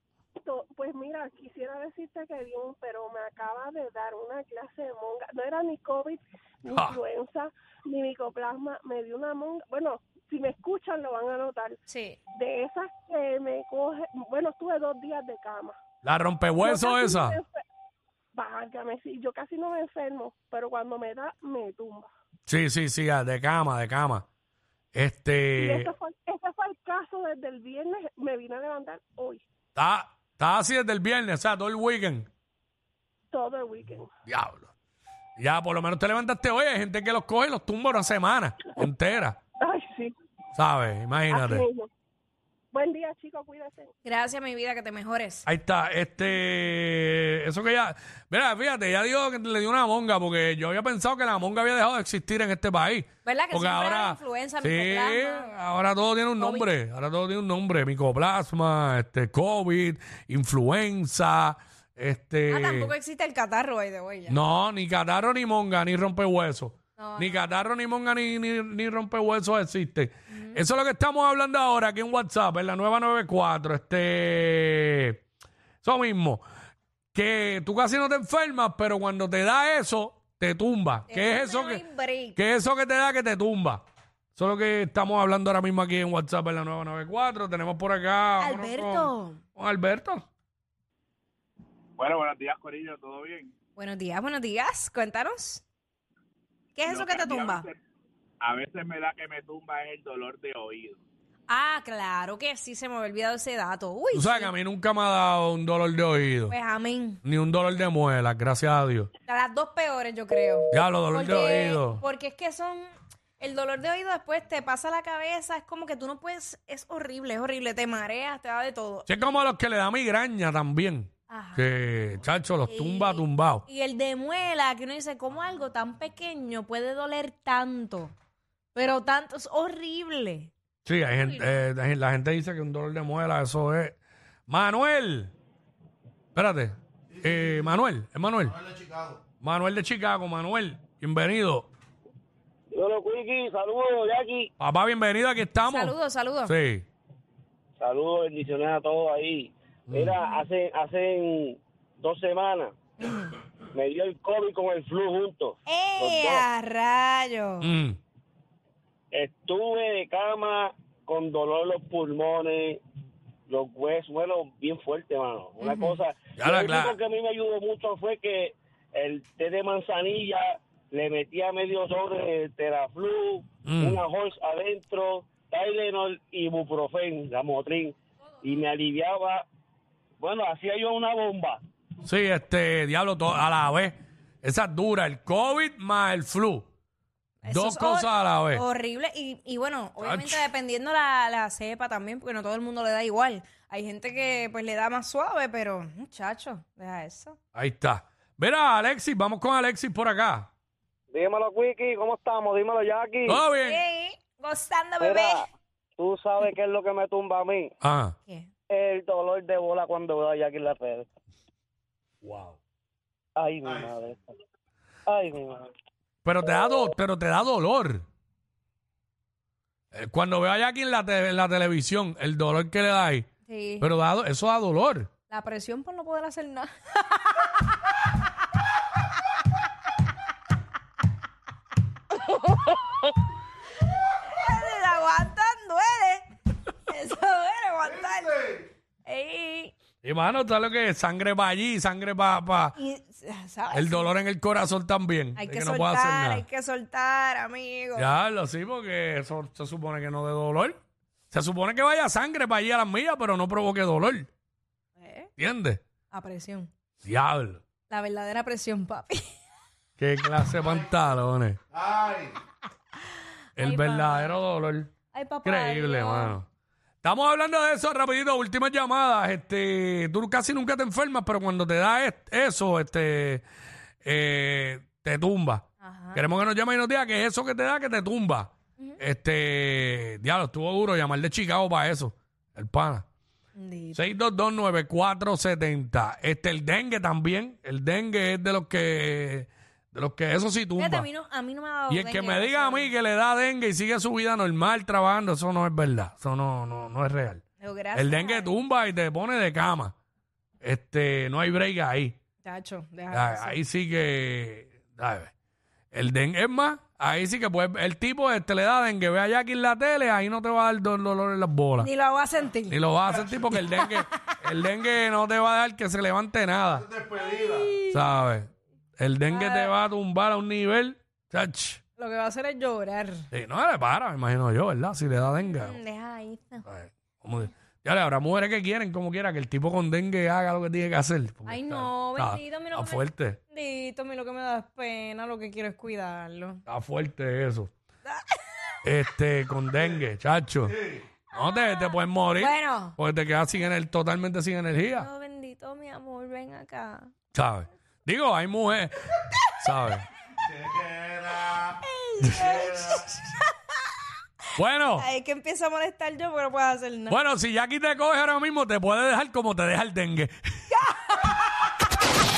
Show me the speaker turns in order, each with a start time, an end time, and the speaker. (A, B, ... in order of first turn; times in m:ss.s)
0:00.4-0:11.7 A
0:06.7-0:07.0 B
0:11.9-0:12.2 C
0:12.4-0:15.8 A
0:16.0-0:17.4 B
0:16.7-0:17.4 A
0:18.4-0:22.1 A
0:22.5-0:24.3 B
0:24.9-0:25.9 B
0:25.6-0:29.4 A
0:29.8-0:32.3 B
0:33.3-0:34.0 A
0:34.3-0:34.7 B
0:35.4-0:39.4 B
0:39.6-0:40.1 A
0:40.6-0:41.6 B
0:41.3-0:41.8 A
0:42.7-0:43.9 A
0:44.0-0:45.5 C
0:45.5-1:02.9 B
0:53.2-0:55.5 C
0:56.4-0:56.7 C
1:02.5-1:04.4 C
1:04.3-1:15.2 B
1:07.0-1:07.5 C
1:10.3-1:10.6 C
1:15.8-1:16.4 B
1:17.1-1:21.8 B
1:21.1-1:22.4 C
1:22.4-1:23.8 B
1:24.4-1:30.2 B
1:28.4-1:29.4 C
1:32.0-1:33.5 D
1:33.8-1:35.6 C
1:36.8-1:37.7 C
1:36.8-1:37.8 D
1:38.4-1:41.0 D
1:41.5-1:44.5 C
1:44.1-1:46.6 B
1:46.5-1:47.2 C
1:47.2-1:49.1 B
1:49.3-1:59.2 C
1:50.7-1:52.0 B
1:59.1-2:03.6 B
2:01.3-2:01.6 C
2:02.7-2:08.1 C
2:08.8-2:10.5 C
2:10.9-2:15.3 B
2:11.1-2:11.6 C
2:16.4-2:18.6 B
2:19.4-2:21.7 B
2:22.7-2:24.5 E
2:24.6-2:26.9 B
2:25.6-2:26.5 C
2:27.8-2:32.7 E
2:29.9-2:30.1 B
2:33.0-2:33.3 C
2:33.7-2:36.5 E
2:35.7-2:37.7 C
2:37.6-2:38.0 B
2:39.1-2:42.8 E
2:43.5-2:59.4 E
2:45.6-2:46.0 C
2:46.4-2:47.0 B
2:53.6-2:54.0 B
3:00.2-3:01.6 E
3:02.0-3:06.7 B
3:07.4-3:17.4 C
3:07.5-3:08.6 B
3:10.0-3:10.5 B
3:17.6-3:20.5 B
3:21.1-3:23.4 E
3:23.3-3:23.8 B
3:23.5-3:25.4 C
3:25.0-3:25.5 E
3:26.0-3:27.7 E
3:27.8-3:28.2 B
3:28.7-3:31.1 E
3:32.2-3:32.6 B
3:33.4-3:34.3 E
3:35.1-3:35.7 E
3:36.2-3:38.0 B
3:39.9-3:43.3 B
3:43.5-3:43.9 C
3:43.8-3:45.1 B
3:45.3-3:47.7 C
3:52.2-3:53.1 C
3:54.0-3:56.3 C
3:56.9-3:59.7 C
4:00.0-4:02.8 B
4:02.8-4:04.1 C
4:03.7-4:06.4 B
4:05.4-4:08.1 C
4:08.0-4:10.8 B
4:11.3-4:14.3 B
4:15.0-4:15.3 C
4:15.4-4:15.8 B
4:16.1-4:16.7 C
4:17.0-4:17.6 B
4:17.9-4:19.3 C
4:20.0-4:21.6 B
4:23.6-4:24.9 B
4:23.6-4:24.4 C
4:25.1-4:26.4 C
4:25.4-4:26.5 B
4:27.0-4:33.4 B
4:34.0-4:43.0 B
4:35.8-4:36.2 C
4:43.6-4:44.0 C
4:44.0-4:51.1 B
4:50.8-4:52.9 C
4:51.9-4:57.4 B
4:57.6-4:58.5 C
4:58.0-4:59.9 B
5:00.6-5:02.2 B
5:02.4-5:03.6 C
5:03.1-5:05.3 B
5:05.9-5:11.9 B
5:11.8-5:12.8 C
5:12.7-5:17.0 B
5:13.5-5:14.0 C
5:17.1-5:18.0 C
5:17.9-5:21.8 B
5:19.3-5:19.8 C
5:22.0-5:23.3 C
5:23.3-5:25.8 B
5:25.4-5:26.7 C
5:26.7-5:33.4 B
5:31.5-5:36.6 C
5:36.7-5:37.7 B
5:38.1-5:38.4 C
5:38.8-5:45.1 B
5:41.5-5:43.0 C
5:44.9-5:47.1 C
5:47.3-5:49.0 B
5:49.6-5:50.1 B
5:51.2-5:53.5 C
5:54.6-5:55.1 B
5:55.0-5:57.2 C
5:57.1-6:00.3 B
6:00.7-6:01.5 C